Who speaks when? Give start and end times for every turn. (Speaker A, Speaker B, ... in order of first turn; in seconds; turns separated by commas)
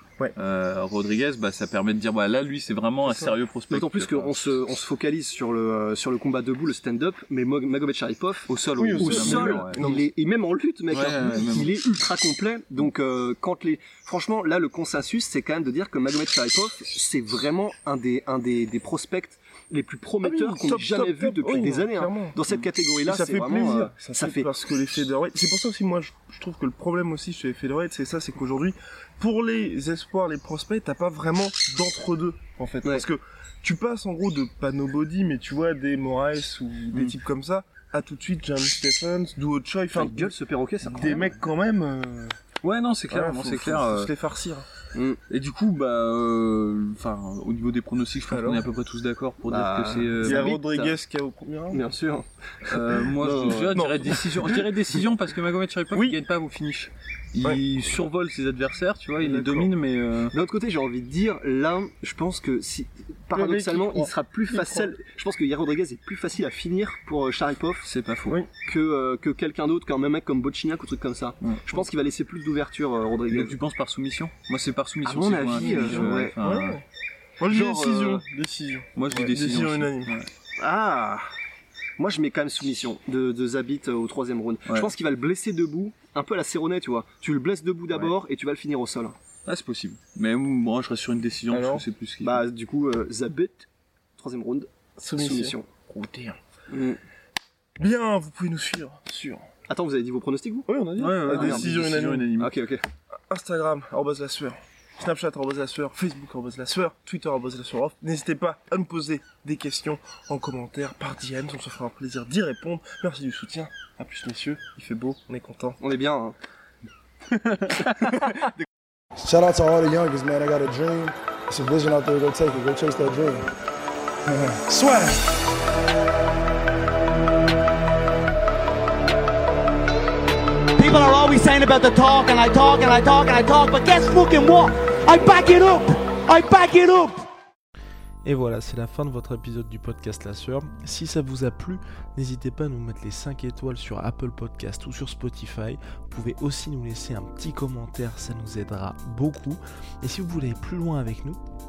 Speaker A: 0.4-4.4, Speaker B: 3.1-3.4, Speaker C: 3.7-24.5, Speaker A: 8.5-9.8, Speaker B: 8.8-10.1, Speaker A: 10.9-11.8, Speaker B: 20.2-42.4, Speaker C: 39.9-41.2, Speaker A: 42.6-44.1, Speaker B: 43.1-44.7, Speaker C: 44.9-45.2, Speaker A: 45.3-50.6, Speaker B: 48.3-48.7, Speaker C: 49.5-51.0, Speaker B: 50.2-51.9, Speaker C: 51.7-54.3, Speaker A: 52.7-60.4, Speaker B: 53.7-54.6, Speaker B: 55.9-56.2, Speaker B: 59.2-59.7, Speaker C: 60.3-67.9, Speaker B: 63.4-65.0, Speaker A: 67.8-68.4, Speaker B: 68.3-68.5, Speaker C: 68.5-73.6, Speaker A: 71.4-71.8, Speaker A: 73.3-76.8, Speaker C: 75.0-76.4, Speaker B: 75.5-76.8, Speaker B: 77.4-80.2, Speaker C: 77.4-78.2, Speaker A: 79.0-80.3, Speaker C: 80.6-81.2, Speaker C: 82.0-89.2, Speaker A: 89.5-92.4, Speaker B: 91.5-91.8, Speaker C: 92.2-95.7, Speaker B: 95.0-95.6, Speaker A: 95.9-96.4, Speaker C: 96.7-97.0, Speaker B: 97.8-99.5, Speaker C: 99.7-100.7, Speaker B: 100.7-102.3, Speaker A: 101.0-102.5, Speaker C: 101.3-101.8, Speaker C: 102.4-102.8, Speaker B: 103.3-115.8, Speaker C: 115.8-116.4, Speaker A: 117.4-118.1, Speaker C: 117.8-118.2, Speaker D: 119.2-123.5, Speaker D: 124.3-125.2, Speaker E: 130.8-137.2, Speaker F: 138.2-151.4